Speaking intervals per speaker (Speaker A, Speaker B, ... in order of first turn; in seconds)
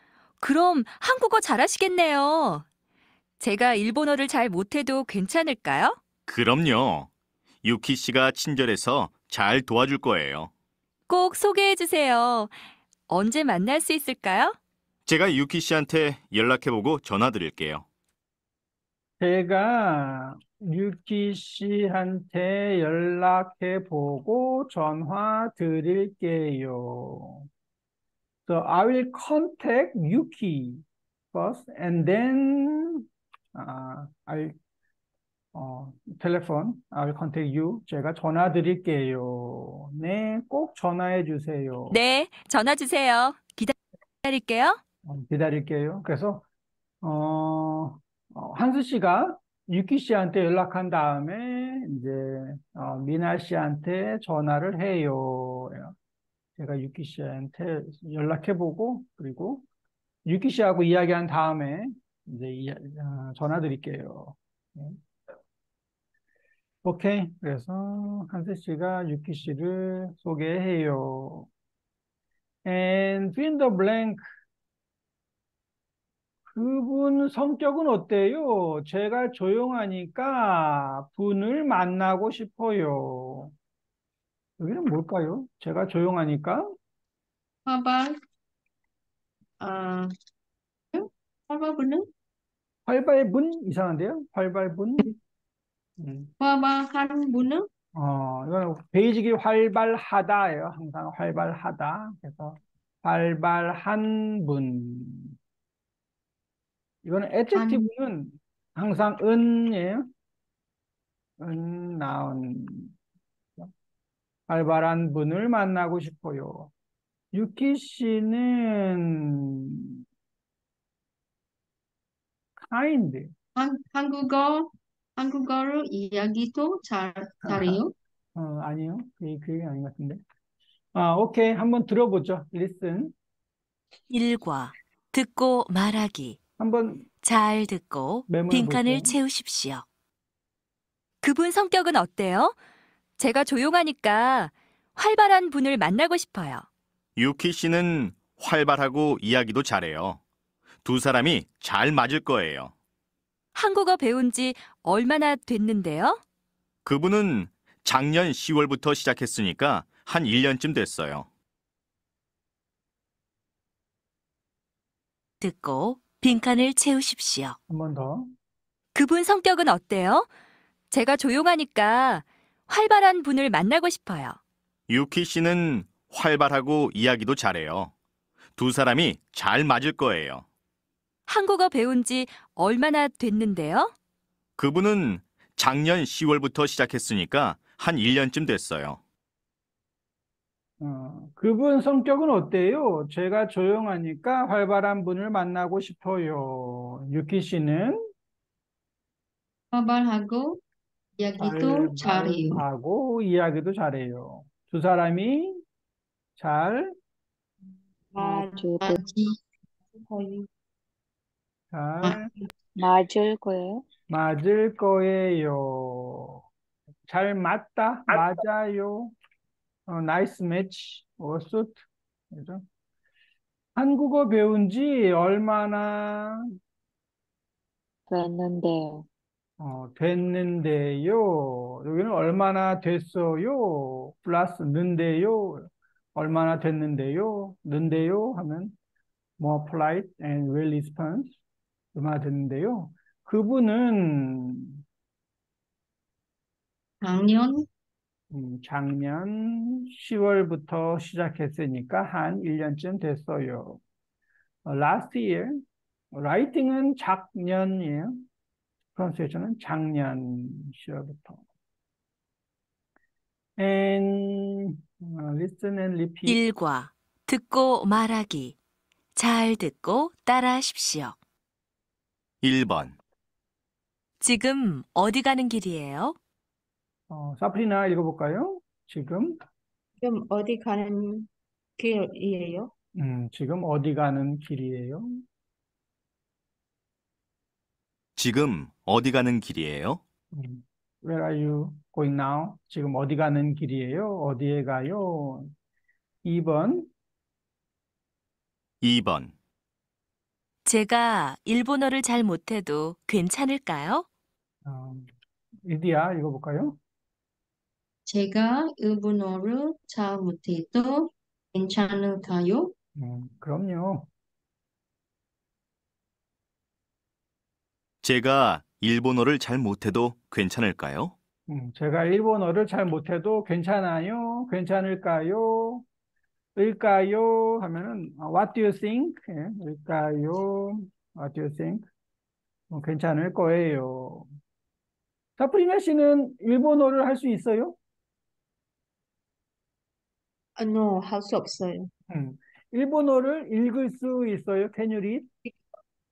Speaker A: 0.4-2.6, 3.4-6.0, 11.1-12.5, 13.1-14.6, 41.9-44.8, 141.2-142.5, 143.2-146.6, 153.5-156.2, 168.9-170.3, 170.9-174.4, 181.3-183.9
Speaker B: 6.3-7.1, 7.6-10.5, 15.1-17.8, 147.2-150.2, 150.8-152.7, 156.8-161.3, 174.9-177.9, 178.6-180.4, 184.6-189.0, 272.4-272.9, 288.1-290.0, 298.8-299.3, 318.0-321.1
Speaker C: 19.2-27.5, 28.5-33.0, 33.5-34.5, 35.5-42.0, 45.0-46.4, 47.0-55.9, 56.6-59.6, 60.2-65.0, 66.8-71.5, 72.6-74.2, 76.5-83.5, 84.6-86.7, 92.9-95.1, 96.0-96.3, 97.9-105.3, 107.0-110.1, 111.4-112.9, 114.5-116.7, 117.3-119.8, 122.6-123.3, 127.4-127.8, 128.3-130.2, 130.9-133.1, 136.6-137.1, 138.3-139.1, 167.7-168.3, 190.8-198.0, 201.4-205.6, 206.4-206.9, 211.7-212.3, 214.1-216.4, 217.1-219.1, 219.9-222.6, 223.8-226.4, 229.6-238.7, 239.4-241.3, 241.9-244.8, 248.3-253.8, 254.6-255.6, 256.1-258.2, 258.9-261.4, 263.6-266.4, 277.1-279.4, 282.9-285.2, 290.3-295.5, 296.2-296.9, 304.6-305.1, 305.6-306.8, 312.9-314.1, 321.5-325.8, 326.6-331.9, 332.7-334.3, 335.4-337.8, 342.1-345.3
Speaker D: 87.7-88.2, 89.6-90.1, 90.9-92.1, 96.4-97.7, 107.5-107.8, 123.5-127.9, 199.7-200.6, 201.2-202.6, 208.8-209.4, 247.0-247.7, 308.1-312.7
Speaker E: 134.1-136.4, 137.2-139.8, 165.4-167.6, 266.2-268.6, 269.1-271.1, 274.2-276.1, 300.6-304.1
Speaker F: 208.1-208.9, 209.9-210.5, 280.0-282.7, 340.6-341.9
Speaker G: 208.2-209.0, 212.8-213.9, 228.1-229.0